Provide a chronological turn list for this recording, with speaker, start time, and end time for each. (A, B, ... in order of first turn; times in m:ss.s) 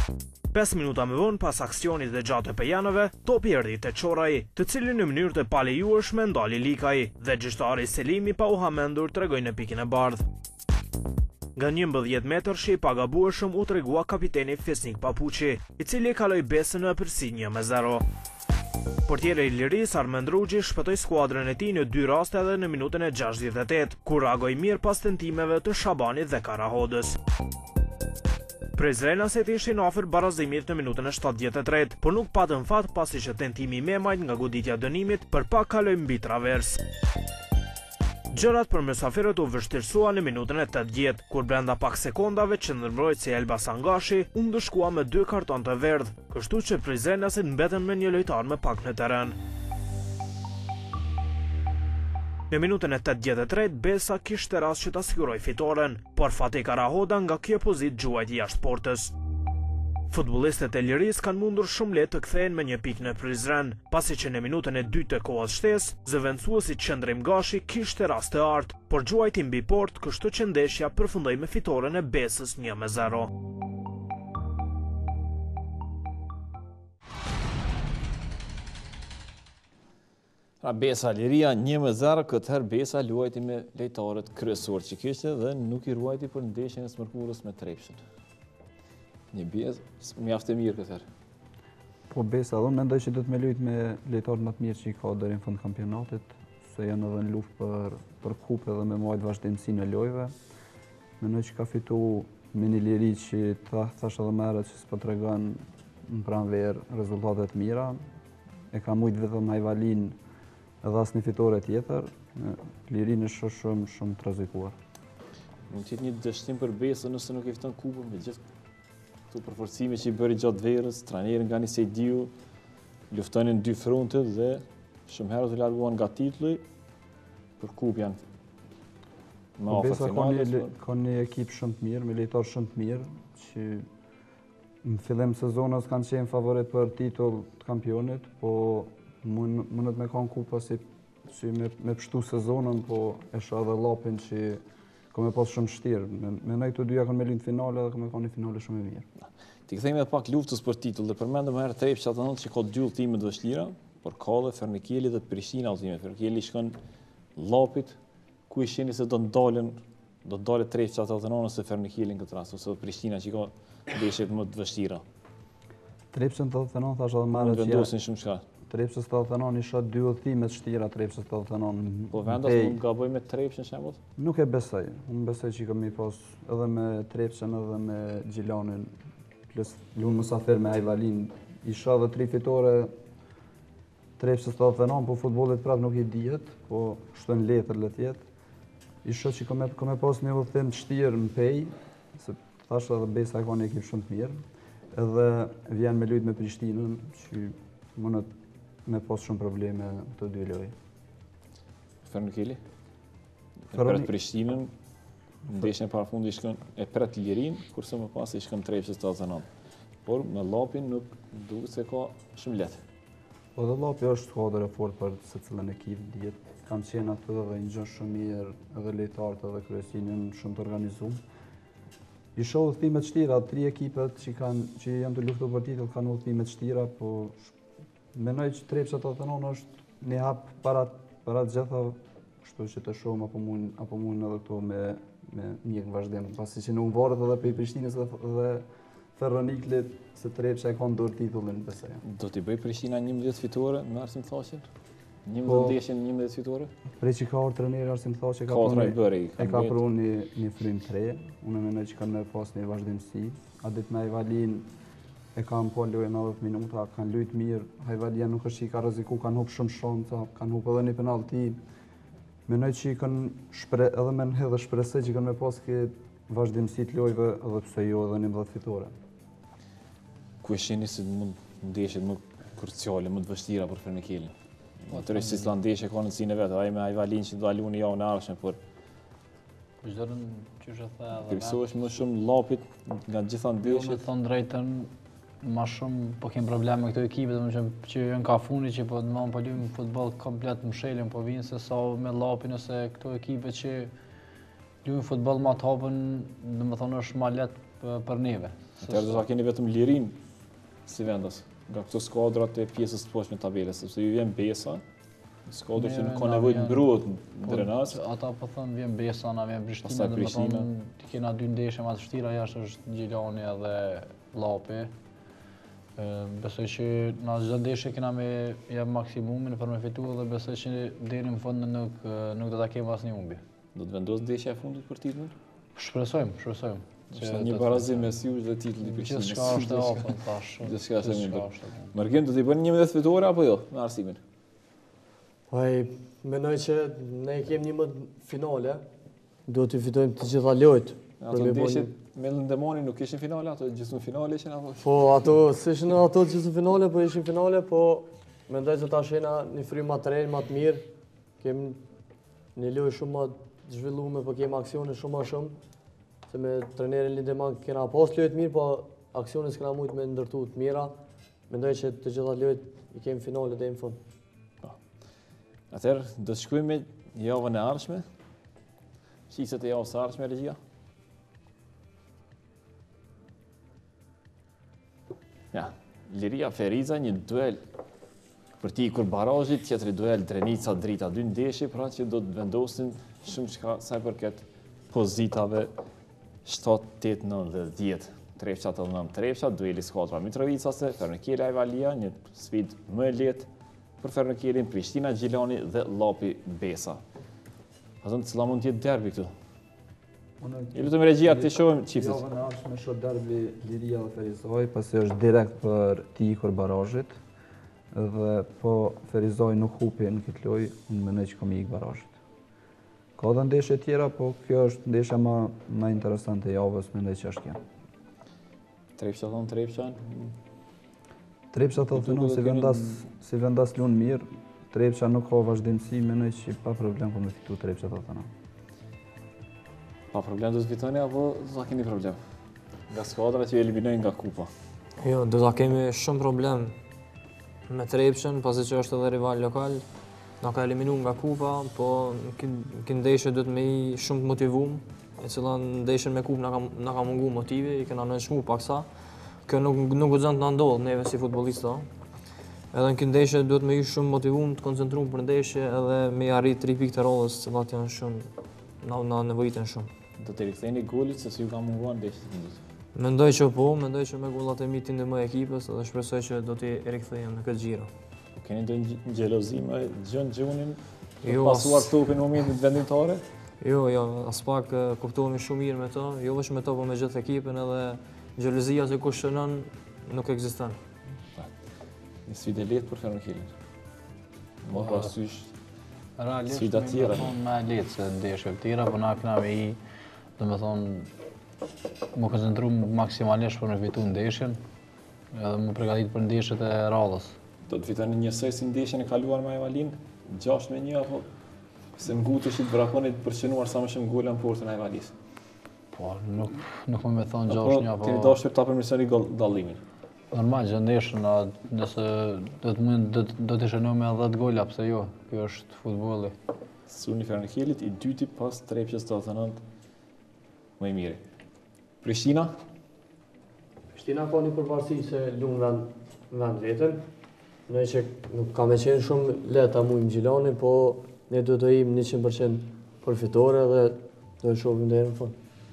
0:00.5-0:10.3 A
0:11.6-0:18.0 A
0:19.1-0:27.2 A
0:28.8-0:36.8 A
0:38.3-0:49.4 A
0:52.5-0:59.1 A
1:00.1-1:13.3 A
1:20.6-1:28.0 B
1:29.3-1:31.0 B
1:32.1-1:40.3 C
1:41.2-1:48.0 C
1:48.7-1:50.2 C
1:50.8-1:54.8 C
1:55.7-1:58.4 B
1:59.3-2:02.3 B
2:03.1-2:06.6 B
2:07.6-2:08.2 B
2:09.6-2:10.7 B
2:09.7-2:13.9 C
2:14.8-2:29.0 C
2:29.2-2:36.8 B
2:37.4-2:38.0 B
2:38.5-2:45.0 B
2:46.1-2:47.9 C
2:47.3-2:48.4 B
2:48.7-2:52.8 C
2:52.1-2:54.0 B
2:54.2-2:59.0 C
2:59.5-3:02.9 C
3:04.2-3:08.2 C
3:09.0-3:14.4 C
3:14.9-3:18.3 C
3:18.9-3:20.7 C
3:22.0-3:22.6 B
3:23.7-3:24.7 B
3:23.7-3:24.1 C
3:25.4-3:29.5 B
3:30.0-3:32.8 B
3:33.6-3:41.2 C
3:42.4-3:47.5 C
3:48.1-4:02.0 C
4:02.0-4:04.7 B
4:05.3-4:06.7 B
4:05.4-4:05.8 C
4:07.0-4:14.7 C
4:08.5-4:09.8 B
4:15.4-4:21.6 C
4:22.5-4:28.9 C
4:30.4-4:34.3 B
4:34.9-4:38.6 B
4:34.9-4:35.5 D
4:39.8-4:42.0 D
4:41.3-4:44.0 B
4:43.6-4:53.9 D
4:54.8-4:59.2 D
4:58.8-5:00.2 B
5:00.9-5:04.8 B
5:05.5-5:08.0 B
5:05.7-5:06.9 D
5:07.4-5:14.9 D
5:09.8-5:10.7 B
5:16.0-5:23.4 D
5:23.7-5:25.4 B
5:25.8-5:28.1 D
5:27.1-5:34.2 B
5:28.8-5:31.9 D
5:35.5-5:38.8 E
5:39.5-5:41.9 E
5:41.2-5:44.9 B
5:44.8-5:50.9 E
5:51.4-5:51.8 E
5:52.6-5:55.6 E
5:56.3-6:01.0 E
6:01.5-6:04.0 E
6:05.7-6:08.0 B
6:09.3-6:10.6 B
6:15.5-6:17.6 B
6:18.6-6:25.7 B
6:26.4-6:33.5 B
6:34.0-6:37.0 B
6:38.0-6:39.3 B
6:40.4-6:47.2 C
6:40.7-6:42.2 B
6:47.9-6:52.2 C
6:53.2-6:57.6 C
6:59.0-7:00.4 B
7:01.5-7:08.3 C
7:01.9-7:03.0 B
7:10.1-7:12.2 B
7:12.9-7:14.5 B
7:15.0-7:16.8 F
7:17.7-7:19.9 F
7:20.4-7:28.9 F
7:29.4-7:31.9 F
7:32.7-7:39.9 F
7:40.2-7:42.6 B
7:43.0-7:47.9 F
7:48.4-7:53.2 B
7:51.2-7:51.9 F
7:53.6-8:00.8 F
8:02.3-8:03.5 B
8:04.6-8:05.5 B
8:04.7-8:05.1 D
8:06.2-8:09.8 D
8:06.5-8:07.3 B
8:10.4-8:11.1 D
8:12.1-8:14.6 D
8:15.3-8:17.4 D
8:17.7-8:21.3 B
8:22.0-8:25.1 B
8:25.9-8:28.4 D
8:27.5-8:29.8 B
8:30.3-8:36.4 D
8:36.9-8:39.6 B
8:40.8-8:41.2 B
8:42.0-8:42.5 B
8:43.9-8:47.0 E
8:47.7-8:55.4 E